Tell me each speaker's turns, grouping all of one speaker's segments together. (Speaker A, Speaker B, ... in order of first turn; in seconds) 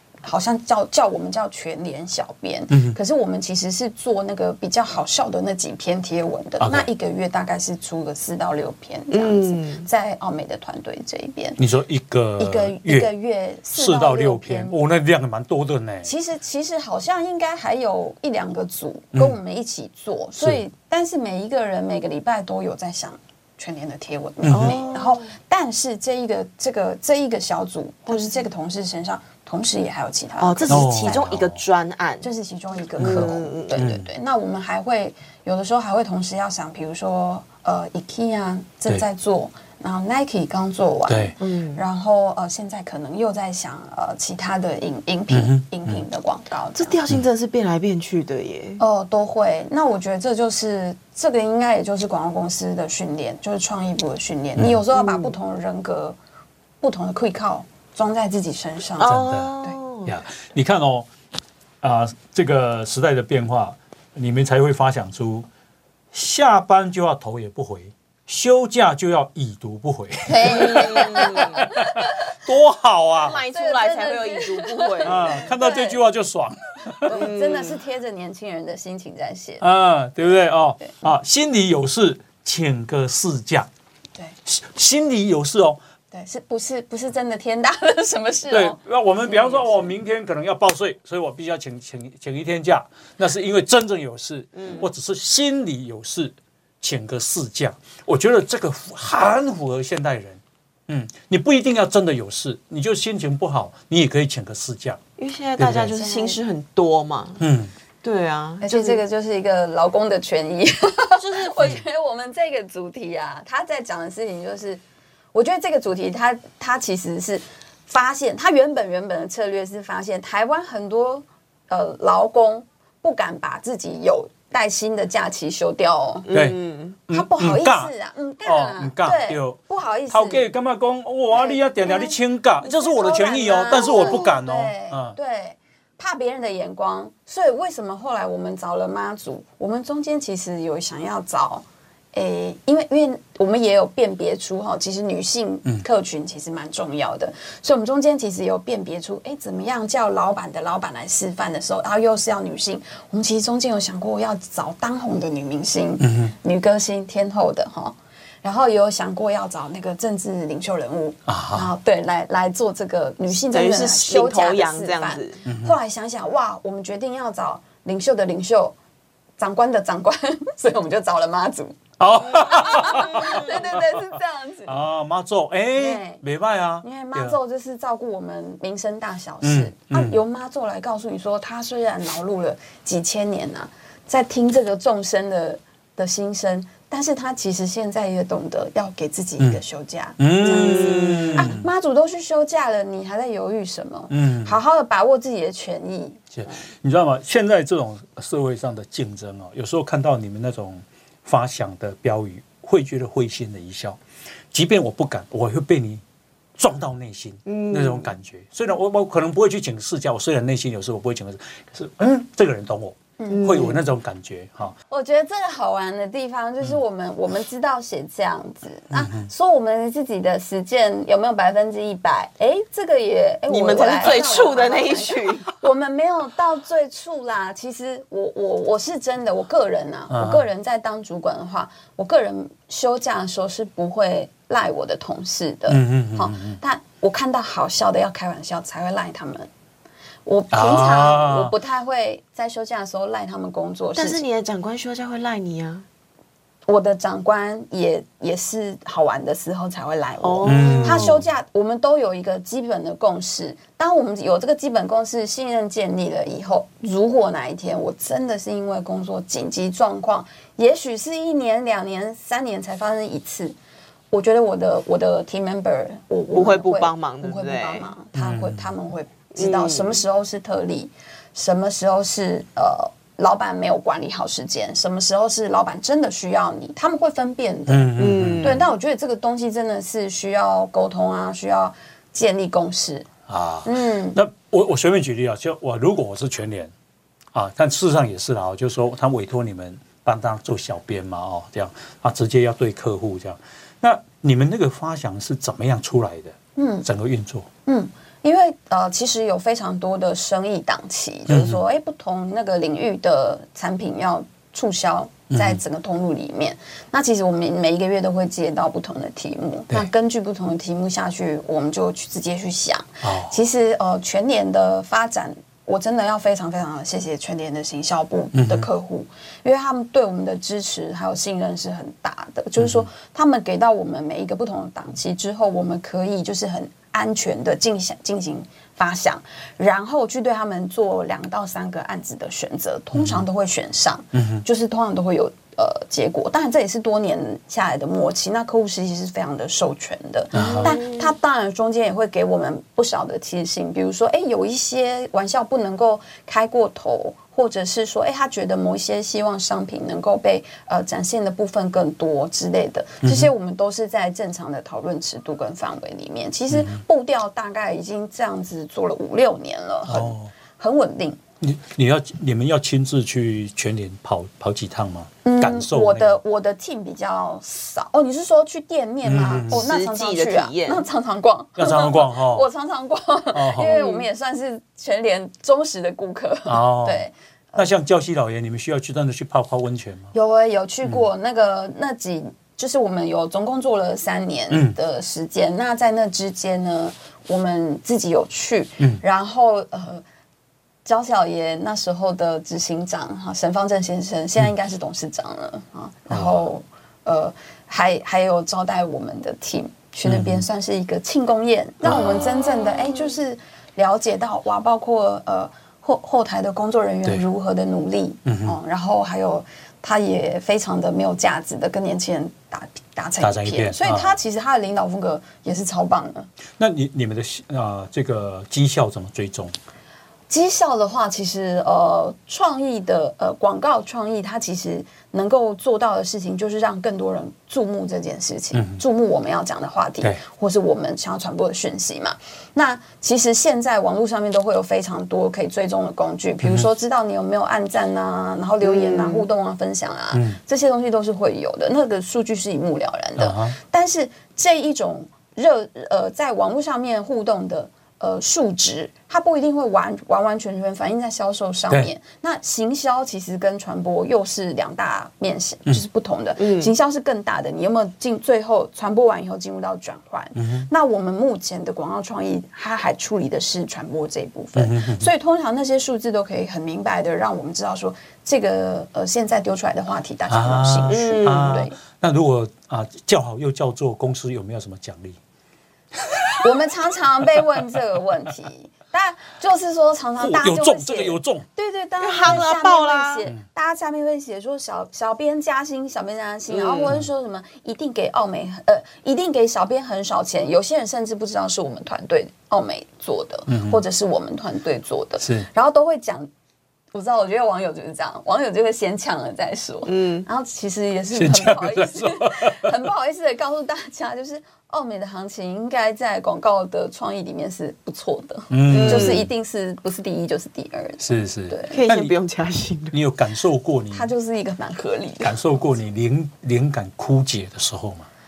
Speaker A: 0.2-11.6, 12.4-14.8, 16.0-31.3, 32.2-47.0, 48.8-56.2, 56.8-59.8, 70.3-72.1, 73.3-76.0, 77.0-79.6, 86.1-89.8, 105.9-106.4, 108.6-114.8, 115.3-126.3, 127.1-130.4, 131.3-168.8, 169.4-174.8, 175.7-176.2, 176.8-196.6, 213.2-213.6, 214.9-239.5, 240.2-244.2, 246.7-263.6, 264.1-283.1, 283.6-284.2, 296.6-296.9, 297.6-361.2, 365.2-377.7, 380.1-390.0, 390.8-416.3, 420.3-471.8, 476.4-496.3, 496.9-511.8, 513.9-515.6
Speaker B: 2.7-3.0, 6.6-6.9, 11.6-13.1, 13.7-16.1, 24.4-24.8, 30.7-31.6, 33.0-34.0, 41.1-41.3, 45.3-46.0, 59.0-61.1, 61.8-65.5, 66.1-73.4, 75.0-77.2, 79.6-83.7, 84.5-85.8, 88.5-105.0, 105.6-106.0, 107.4-107.7, 126.3-127.9, 128.4-135.2, 156.0-156.3, 161.3-161.7, 165.4-165.8, 172.0-174.0, 174.7-177.4, 179.4-180.2, 190.2-191.7, 194.1-194.6, 196.3-204.0, 204.5-206.0, 206.6-214.8, 218.9-219.3, 230.1-230.4, 235.7-236.6, 240.5-241.5, 250.4-251.2, 268.1-268.7, 277.7-278.6, 283.3-286.7, 287.3-297.5, 301.3-301.6, 305.3-305.6, 313.0-313.4, 318.3-318.7, 322.6-322.9, 332.9-333.2, 334.1-334.4, 340.3-340.8, 353.0-353.3, 356.5-356.8, 359.9-360.3, 361.4-366.2, 369.0-369.6, 371.6-372.4, 373.3-373.8, 376.4-380.1, 396.1-396.4, 400.0-400.4, 401.8-402.1, 408.2-408.6, 413.2-414.1, 416.6-419.5, 428.5-428.8, 440.1-440.4, 443.2-443.6, 460.4-460.7, 464.6-465.1, 470.3-475.2, 475.9-476.5, 477.3-477.6, 480.2-481.4, 493.5-493.8, 495.2-495.5, 501.1-502.7, 508.5-509.3, 511.0-512.1, 512.9-514.1, 515.2-518.1
Speaker C: 9.1-9.9, 24.5-25.2, 30.4-32.3, 33.0-33.8, 41.4-41.8, 46.7-48.8, 54.9-55.3, 59.0-60.1, 70.3-71.6, 73.2-75.4, 77.1-77.8, 94.5-94.8, 105.2-107.4, 108.0-109.0, 111.2-111.5, 126.2-127.0, 163.5-165.4, 190.4-191.5, 207.5-208.1, 213.3-213.8, 223.5-225.5, 243.9-245.8, 250.2-251.2, 266.3-267.9, 269.4-270.0, 278.0-278.6, 340.3-341.1, 369.5-370.8, 373.7-374.0, 438.6-439.2, 456.4-456.7, 470.9-471.6, 482.0-483.3, 486.5-486.9, 499.9-500.3, 508.7-509.3, 511.7-513.0